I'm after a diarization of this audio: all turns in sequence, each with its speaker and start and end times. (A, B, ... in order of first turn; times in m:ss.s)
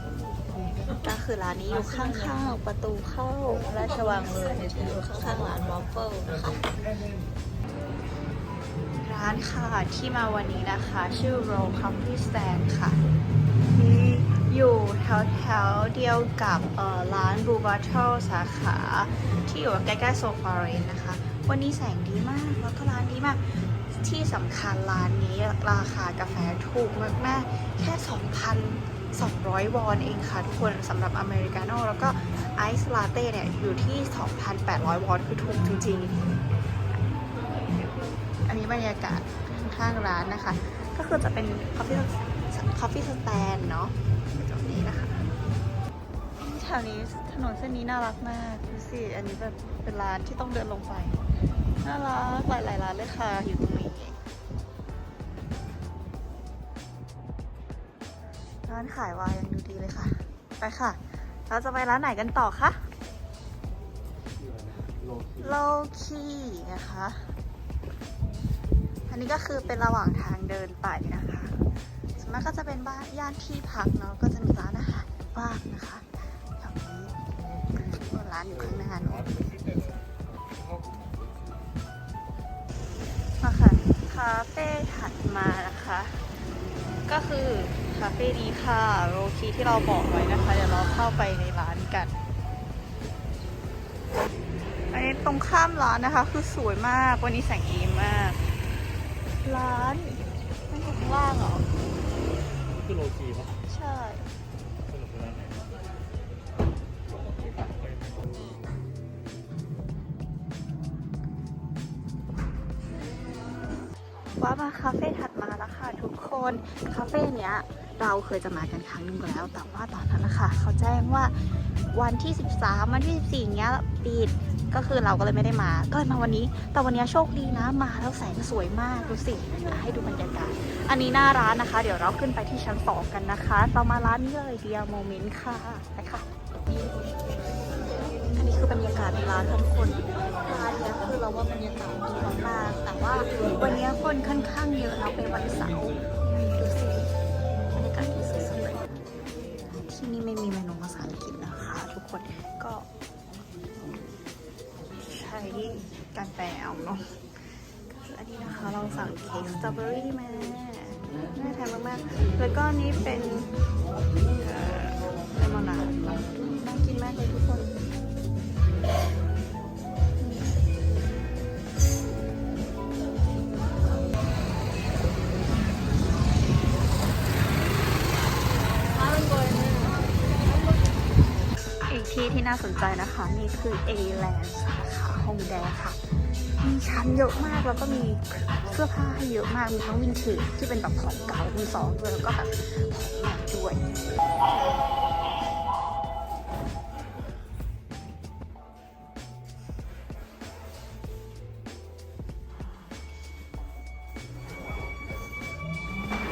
0:01.0-0:06.7 A
0:09.0-0:13.0 A
0:13.7-0:36.2 A
0:37.5-0:45.3 A
0:46.4-0:51.2 A
0:51.8-0:54.2 A
0:58.7-1:02.9 A
1:04.4-1:05.6 B
1:05.4-1:07.3 A
1:09.1-1:11.6 A
1:12.2-1:19.3 A
1:18.7-1:21.7 B
1:23.4-1:26.2 A
1:27.1-1:32.2 A
1:34.9-1:38.4 A
1:39.4-1:41.7 A
1:42.7-1:43.6 B
1:43.7-1:44.3 A
1:44.9-1:45.8 B
1:47.1-1:48.6 B
1:54.4-2:16.3 A
2:18.3-2:27.1 A
2:27.7-2:28.9 A
2:29.9-2:32.9 A
2:33.8-2:34.0 A
2:35.0-2:37.2 A
2:38.0-2:43.5 A
2:44.4-2:47.8 A
2:50.2-2:50.5 A
2:59.2-3:00.0 A
3:01.9-3:06.0 A
3:06.6-3:13.8 A